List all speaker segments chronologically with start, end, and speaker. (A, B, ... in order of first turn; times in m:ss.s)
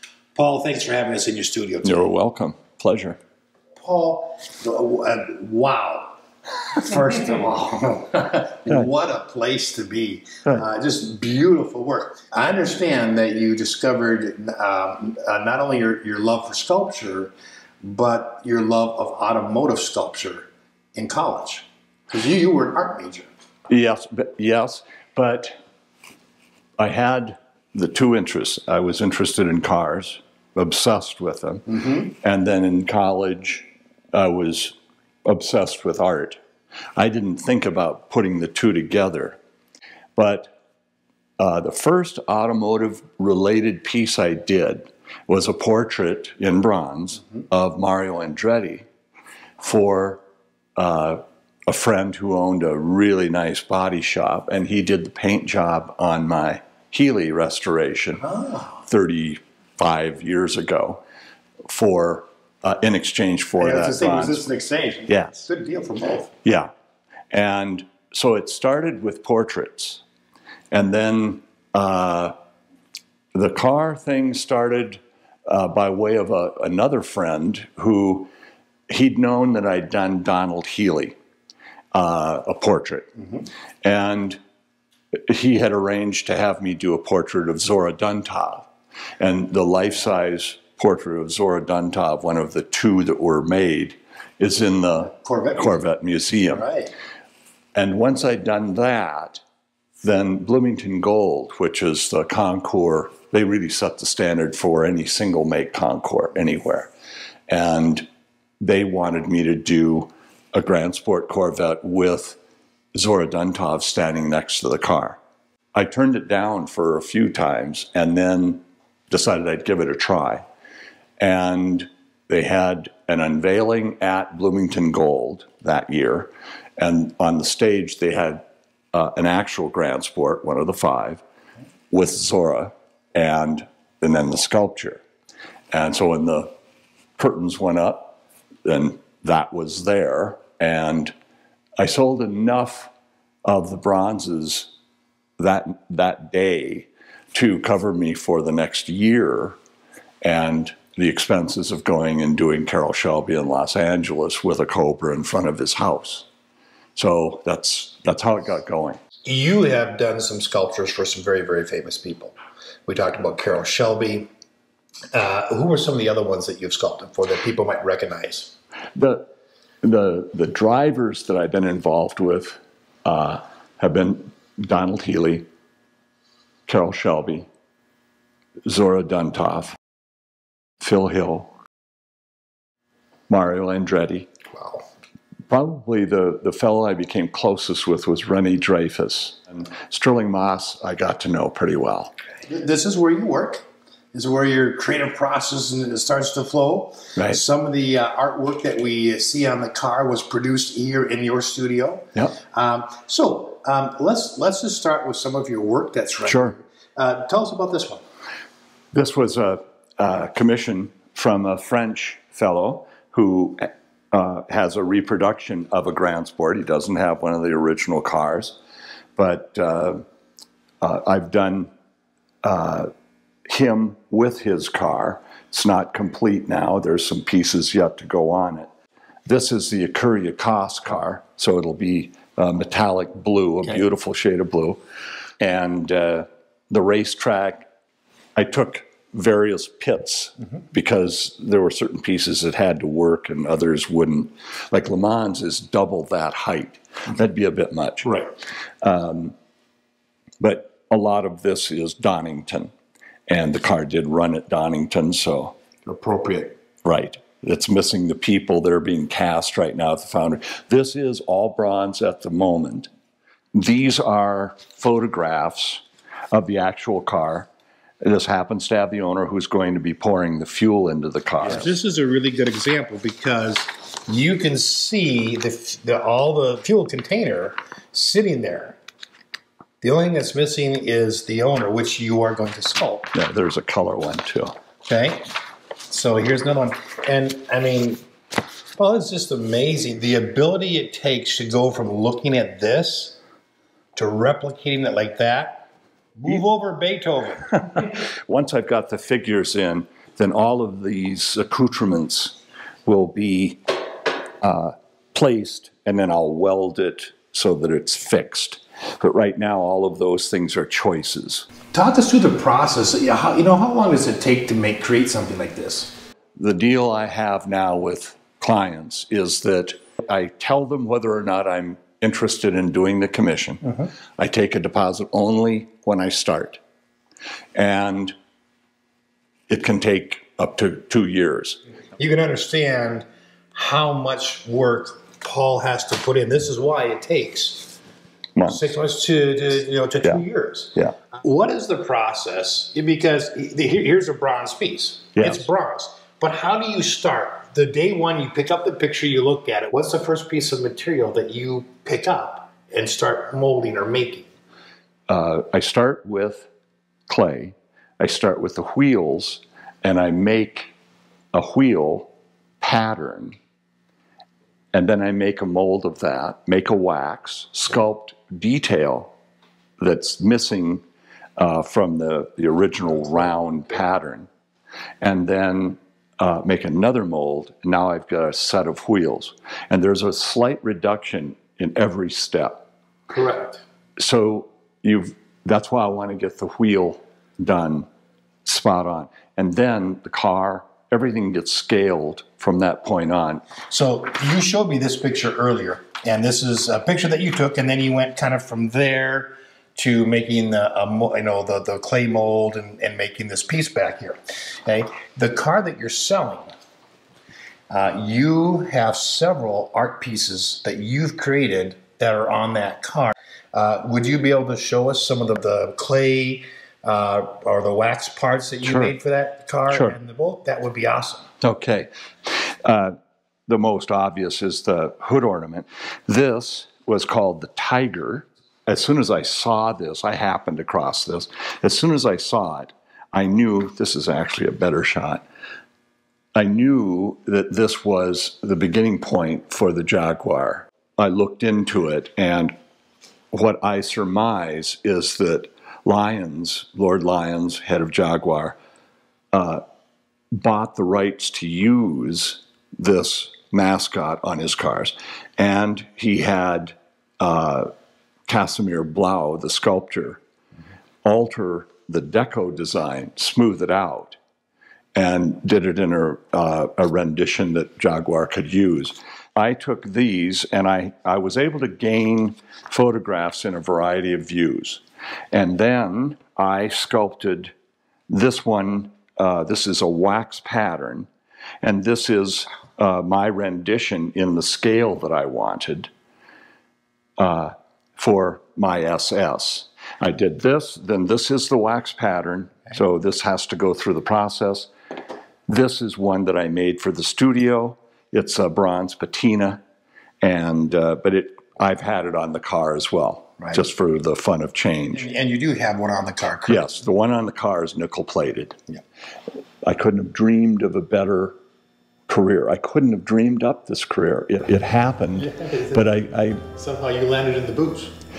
0:00.3-0:02.0 A
0:01.8-0:03.2 B
0:03.8-0:06.2 A
0:06.7-0:23.3 A
0:23.7-0:25.5 B
0:26.8-0:36.4 B
0:31.7-0:32.0 A
0:37.0-0:39.4 B
0:40.2-0:40.5 B
0:41.4-0:48.8 B
0:49.6-0:50.2 B
0:50.8-1:01.0 B
1:01.7-1:04.4 B
1:03.6-1:06.3 A
1:06.4-1:06.7 B
1:07.3-1:10.0 B
1:10.7-1:12.3 B
1:13.3-1:18.3 B
1:18.9-1:21.2 B
1:21.9-1:23.1 B
1:23.8-1:24.4 B
1:25.3-1:28.7 B
1:29.2-1:36.6 B
1:35.0-1:35.8 A
1:36.4-1:36.9 A
1:37.7-1:39.4 B
1:40.0-1:46.9 B
1:47.5-1:48.0 B
1:48.6-1:52.4 B
1:52.9-1:55.2 B
1:55.7-2:00.4 B
2:01.2-2:08.4 B
2:08.9-2:11.2 B
2:11.9-2:15.0 B
2:15.7-2:16.5 B
2:17.2-2:21.1 B
2:21.8-2:22.9 B
2:23.4-2:24.7 B
2:25.4-2:29.6 B
2:30.2-2:36.3 B
2:36.9-2:39.0 B
2:39.2-2:42.4 A
2:42.9-2:44.3 A
2:45.1-2:48.5 A
2:49.0-2:49.3 B
2:49.8-2:55.5 B
2:56.7-2:57.5 B
2:58.7-2:59.8 B
3:00.8-3:01.5 B
3:03.3-3:04.3 B
3:04.5-3:04.8 A
3:05.5-3:12.1 B
3:12.5-3:28.0 A
3:26.2-3:26.5 B
3:28.9-3:38.6 B
3:39.2-3:40.0 B
3:40.8-3:41.7 B
3:42.4-3:42.9 B
3:43.5-3:48.7 B
3:49.2-3:54.8 B
3:55.4-3:57.7 B
3:58.4-4:08.2 B
4:08.0-4:08.3 A
4:08.8-4:09.3 B
4:10.4-4:12.7 B
4:13.3-4:15.5 B
4:15.8-4:16.5 A
4:16.8-4:22.9 B
4:23.5-4:27.5 B
4:28.0-4:31.7 B
4:31.4-4:38.8 A
4:39.8-4:43.1 A
4:43.1-4:44.6 B
4:44.9-4:45.3 A
4:45.9-4:48.0 A
4:48.8-4:53.2 A
4:54.0-4:57.5 A
4:57.5-5:03.6 B
5:04.4-5:11.5 B
5:11.7-5:15.9 A
5:16.4-5:26.6 B
5:27.5-5:28.1 B
5:29.5-5:31.6 B
5:32.0-5:37.7 A
5:38.4-5:38.6 B
5:38.4-5:54.3 A
5:45.2-5:45.4 B
5:55.1-5:56.5 B
5:57.1-6:00.7 B
6:01.3-6:02.1 B
6:02.6-6:03.4 B
6:04.7-6:09.1 B
6:09.8-6:10.8 B
6:11.4-6:14.3 B
6:15.0-6:22.6 B
6:23.1-6:23.6 A
6:24.0-6:27.9 B
6:28.4-6:33.4 B
6:33.7-6:46.4 A
6:47.7-7:01.3 A
6:58.6-6:58.9 B
7:01.4-7:02.9 B
7:03.5-7:15.2 B
7:16.3-7:22.5 B
7:23.3-7:28.6 B
7:29.3-7:29.6 B
7:30.3-7:37.7 B
7:38.3-7:40.2 B
7:41.0-7:44.2 B
7:44.9-7:57.5 B
7:58.1-8:01.1 B
8:01.6-8:05.9 B
8:07.2-8:14.7 B
8:15.5-8:19.6 B
8:20.2-8:25.0 B
8:24.9-8:26.8 A
8:26.5-8:28.6 B
8:29.6-8:31.4 B
8:32.1-8:36.4 B
8:35.2-8:35.8 A
8:36.5-8:37.9 A